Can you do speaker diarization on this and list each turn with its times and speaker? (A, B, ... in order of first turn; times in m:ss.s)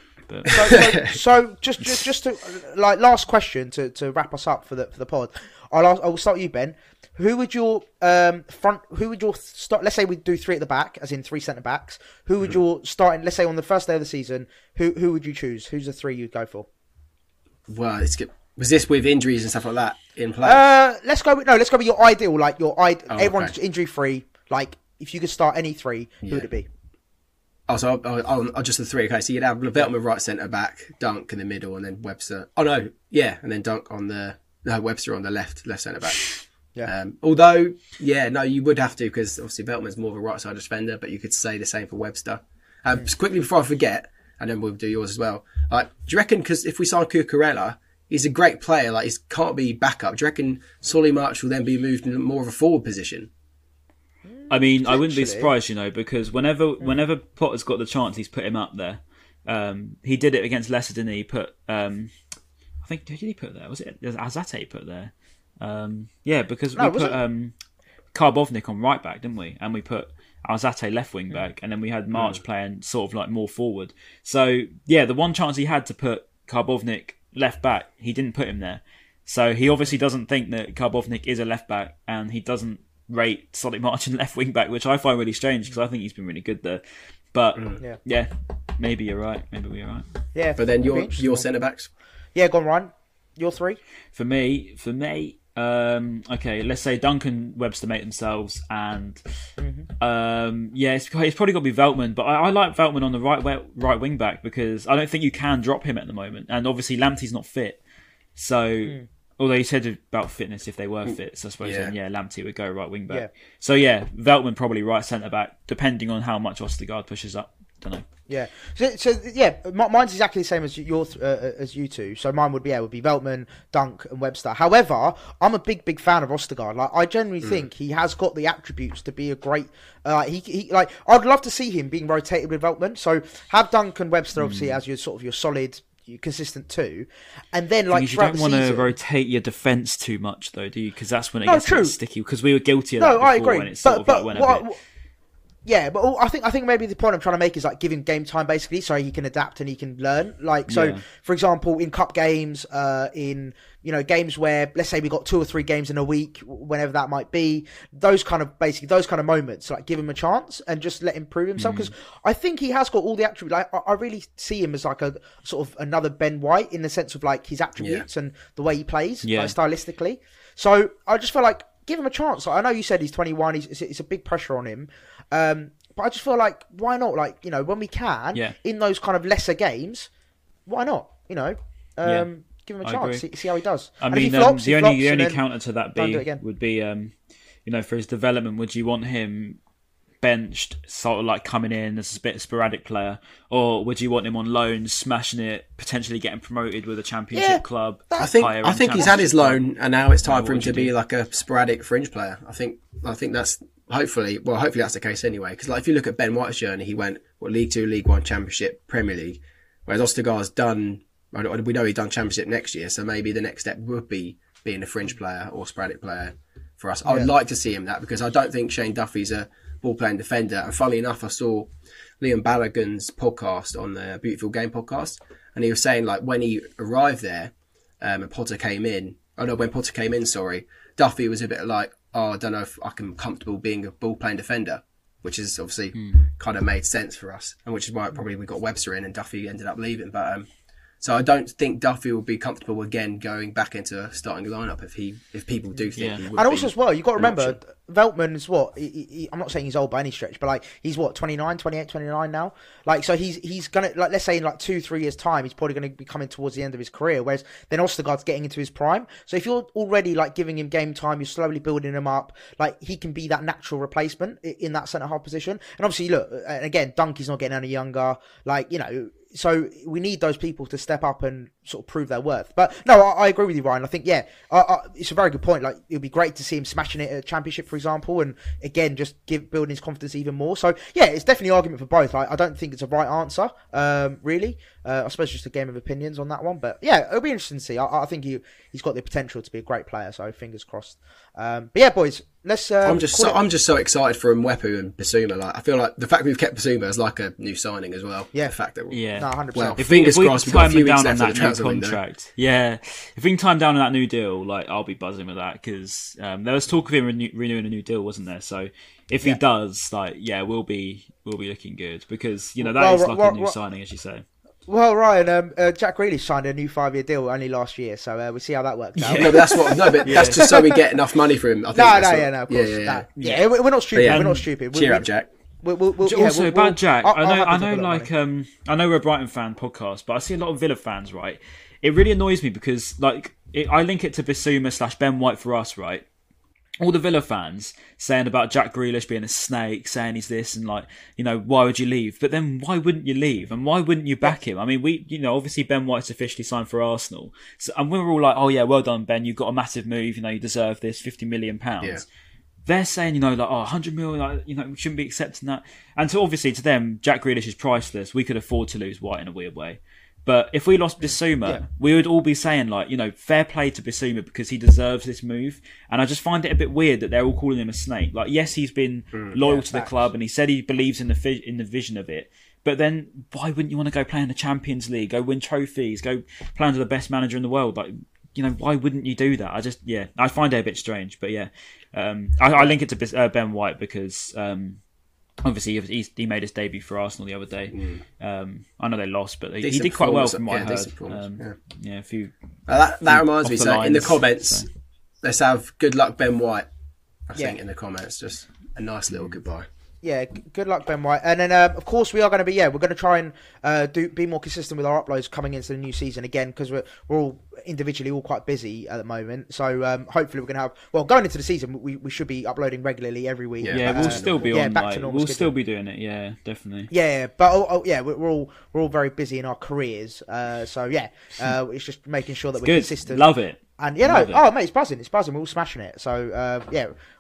0:00.3-0:00.8 A
0:00.5-0:16.7 B
0:00.7-0:01.2 C
0:17.7-0:20.6 C
0:20.4-0:26.7 B
0:23.1-0:23.6 C
0:27.7-0:36.3 C
0:36.9-0:53.3 C
0:54.3-0:55.5 B
0:54.5-1:02.1 A
1:02.8-1:07.5 A
1:06.8-1:07.2 B
1:08.1-1:30.1 A
1:30.3-1:31.5 B
1:30.6-1:31.9 C
1:32.4-1:33.8 B
1:34.1-1:39.2 A
1:39.6-1:39.9 B
1:40.0-1:47.8 A
1:48.4-1:58.1 A
1:51.6-1:51.9 C
1:58.3-2:18.9 B
2:14.4-2:14.8 A
2:17.9-2:24.6 A
2:21.5-2:21.9 B
2:23.0-2:24.8 B
2:25.7-3:00.1 B
2:30.7-2:31.0 A
2:41.6-2:41.9 A
2:47.8-2:48.1 C
2:49.2-2:49.5 A
3:00.7-3:05.4 B
3:02.8-3:03.2 A
3:04.0-3:07.1 A
3:06.0-3:06.4 B
3:07.7-3:09.6 A
3:10.2-3:19.6 A
3:17.3-3:18.3 B
3:18.2-4:00.5 C
3:20.2-3:20.9 A
3:56.0-3:56.2 A
4:01.0-4:07.6 C
4:06.0-4:06.2 A
4:06.3-4:53.4 B
4:52.8-4:59.0 C
4:58.9-5:14.2 A
4:59.2-4:59.8 B
4:59.5-5:02.0 C
5:12.6-5:13.6 B
5:14.7-5:20.8 B
5:19.0-5:20.5 A
5:19.1-5:23.1 C
5:21.7-5:25.1 B
5:23.2-5:24.5 A
5:24.0-5:25.3 C
5:25.6-5:28.1 B
5:26.0-5:36.0 A
5:36.8-5:52.1 A
5:52.7-6:24.8 A
6:09.4-6:10.0 B
6:25.4-6:32.3 A
6:27.7-6:28.0 C
6:29.6-6:31.6 C
6:32.7-6:34.7 C
6:33.1-6:34.7 A
6:35.2-6:36.7 C
6:37.3-6:39.7 C
6:40.0-6:55.5 B
6:53.6-6:54.6 C
6:53.7-6:56.9 A
6:56.9-7:03.3 B
7:02.6-7:04.4 A
7:03.8-7:06.9 B